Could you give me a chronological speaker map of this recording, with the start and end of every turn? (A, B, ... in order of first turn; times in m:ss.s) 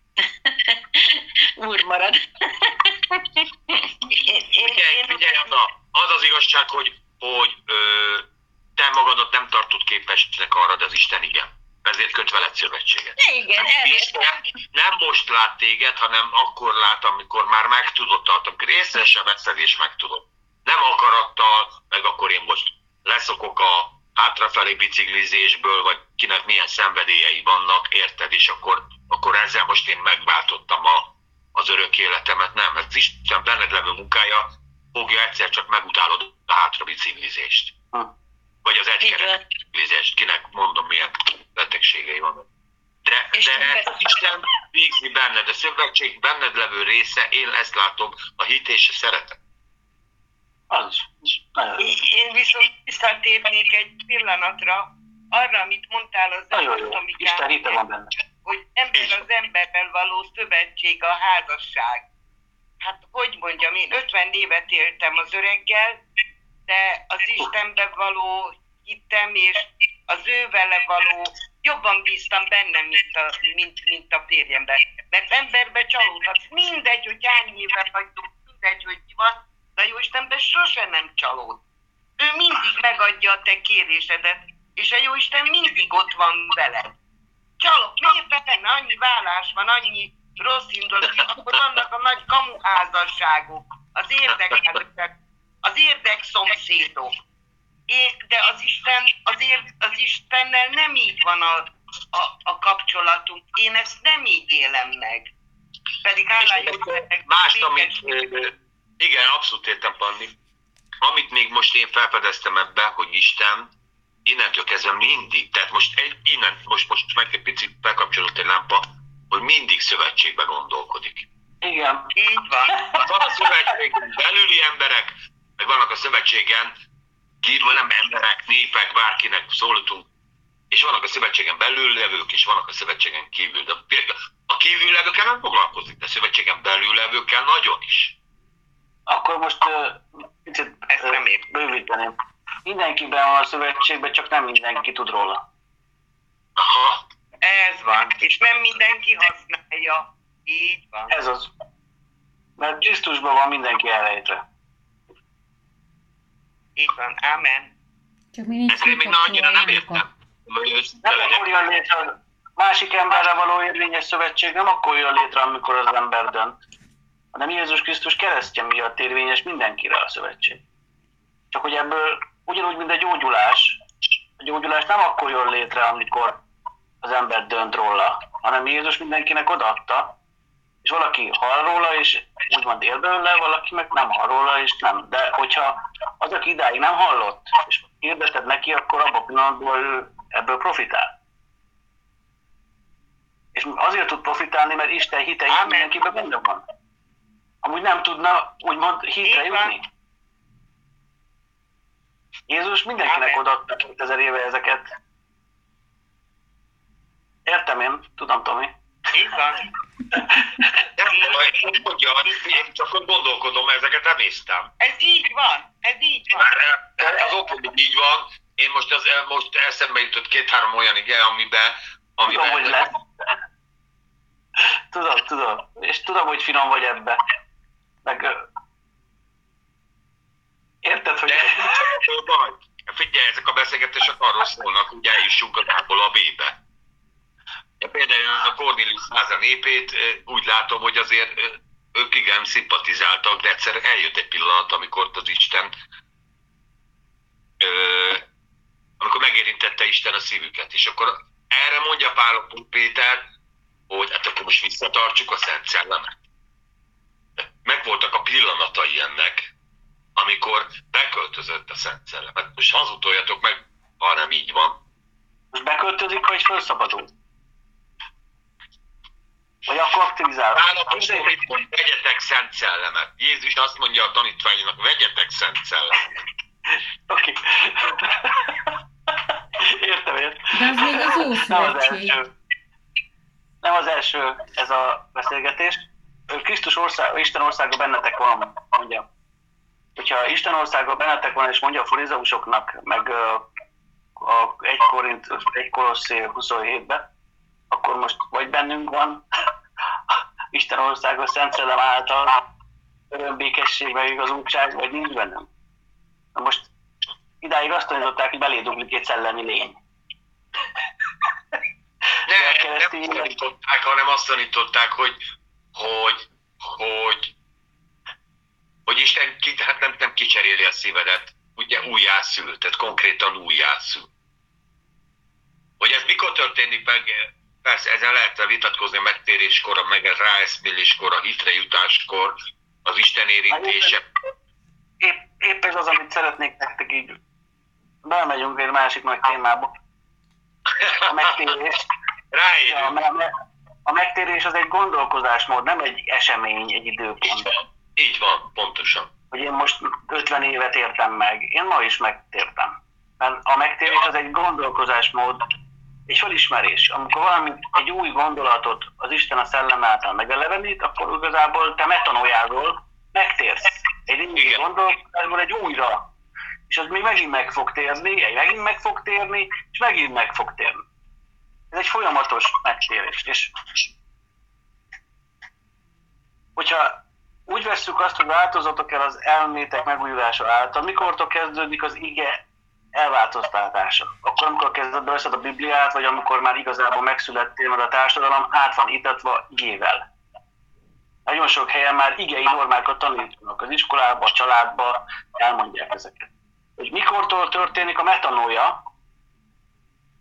0:00.2-0:04.1 A
0:04.1-0:05.5 B
0:04.6-0:08.2 C
0:08.8-0:37.7 C
0:13.2-0:14.3 A
0:38.6-0:42.4 C
0:39.0-0:39.4 A
0:43.0-0:49.4 C
0:43.3-0:44.2 A
0:50.7-0:51.9 D
0:51.8-0:57.8 B
0:56.5-0:58.1 D
0:58.4-1:02.0 B
1:02.8-1:06.0 B
1:06.7-1:21.6 B
1:22.2-1:27.0 B
1:27.6-1:37.1 B
1:37.9-1:45.3 B
1:46.0-1:48.2 B
1:46.4-1:50.4 C
1:51.0-1:53.7 C
1:54.2-2:01.2 C
2:01.6-2:02.1 D
2:02.1-2:03.0 B
2:02.9-2:06.7 C
2:07.4-2:10.1 C
2:10.7-2:18.1 C
2:19.1-2:25.4 D
2:20.9-2:21.4 B
2:26.6-2:27.0 C
2:27.4-2:31.1 B
2:31.1-2:31.5 D
2:32.6-2:34.4 D
2:36.8-2:37.7 B
2:38.3-2:40.0 E
2:38.7-2:41.4 C
2:41.0-2:46.6 D
2:47.3-2:50.6 D
2:51.5-2:53.8 D
2:54.4-2:56.4 D
2:57.0-3:00.1 D
3:00.8-3:11.1 D
3:13.5-3:16.6 D
3:15.5-3:16.1 B
3:17.6-3:19.8 D
3:19.2-3:19.8 B
3:22.5-3:24.9 D
3:23.0-3:23.4 B
3:27.4-3:28.7 D
3:29.1-3:29.7 B
3:30.1-3:30.5 D
3:31.0-3:34.7 C
3:31.1-3:31.8 B
3:32.3-3:32.6 B
3:34.8-3:36.6 B
3:36.4-3:42.9 C
3:42.2-3:42.9 D
3:44.9-3:47.2 D
3:48.0-3:48.4 D
3:50.8-3:51.7 D
3:51.3-3:56.6 C
3:57.8-4:05.7 C
4:07.6-4:08.2 C
4:09.0-4:13.2 C
4:13.9-4:16.2 C
4:17.4-4:19.5 C
4:20.2-4:24.8 C
4:25.5-4:27.1 D
4:29.6-4:31.4 D
4:30.5-4:36.1 C
4:37.1-4:38.7 D
4:39.6-4:42.3 D
4:40.5-4:42.2 E
4:43.6-4:49.0 D
4:50.0-4:53.4 D
4:54.2-4:57.1 D
4:57.7-4:59.2 D
5:00.5-5:02.4 D
5:03.1-5:05.5 D
5:06.3-5:06.7 D
5:07.4-5:09.8 D
5:12.2-5:15.2 C
5:12.3-5:13.3 D
5:15.7-5:17.3 C
5:18.8-5:24.1 C
5:25.8-5:34.0 C
5:33.5-5:34.0 D
5:35.0-5:37.2 D
5:38.0-5:39.7 D
5:40.7-5:41.5 C
5:41.0-5:41.8 D
5:42.3-5:42.9 C
5:42.6-5:43.3 D
5:43.8-5:47.5 D
5:48.0-5:49.1 C
5:49.3-5:55.4 D
5:56.1-6:06.1 D
6:04.4-6:04.6 C
6:06.7-6:10.8 D
6:11.7-6:13.5 D
6:16.6-6:22.4 D
6:22.9-6:30.1 D
6:31.2-6:38.8 D